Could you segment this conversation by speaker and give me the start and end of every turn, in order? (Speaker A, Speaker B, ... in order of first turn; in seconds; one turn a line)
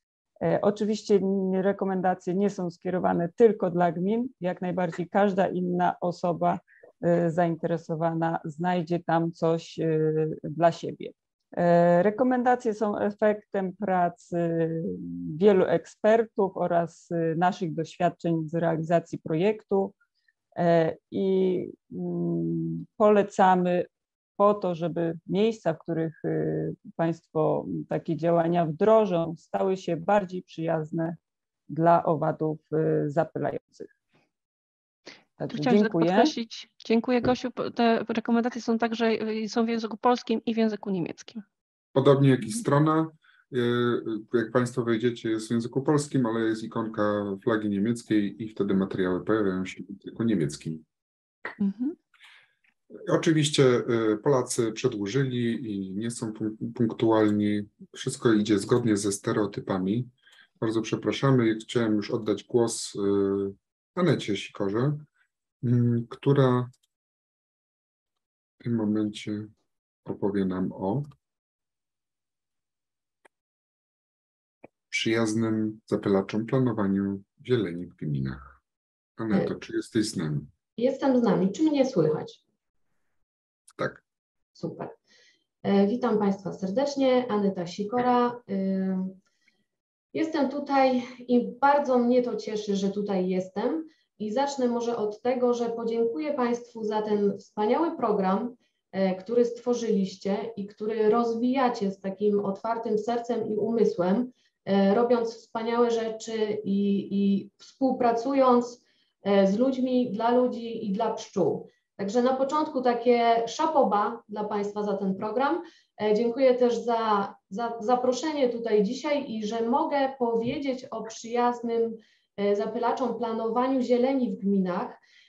Speaker A: 0.4-19.9
Speaker A: 20.6-31.2
Speaker A: 31.7-33.9
Speaker A: 35.4-36.3
Speaker B: 35.5-41.4
Speaker C: 41.9-50.8
Speaker B: 51.6-52.0
Speaker C: 53.0-65.0
Speaker C: 65.6-66.7
Speaker C: 68.6-69.5
Speaker C: 70.0-71.1
Speaker C: 74.9-78.6
Speaker C: 79.2-80.5
Speaker D: 80.8-82.4
Speaker C: 83.7-84.0
Speaker D: 84.5-84.9
Speaker D: 85.6-89.2
Speaker D: 90.1-125.0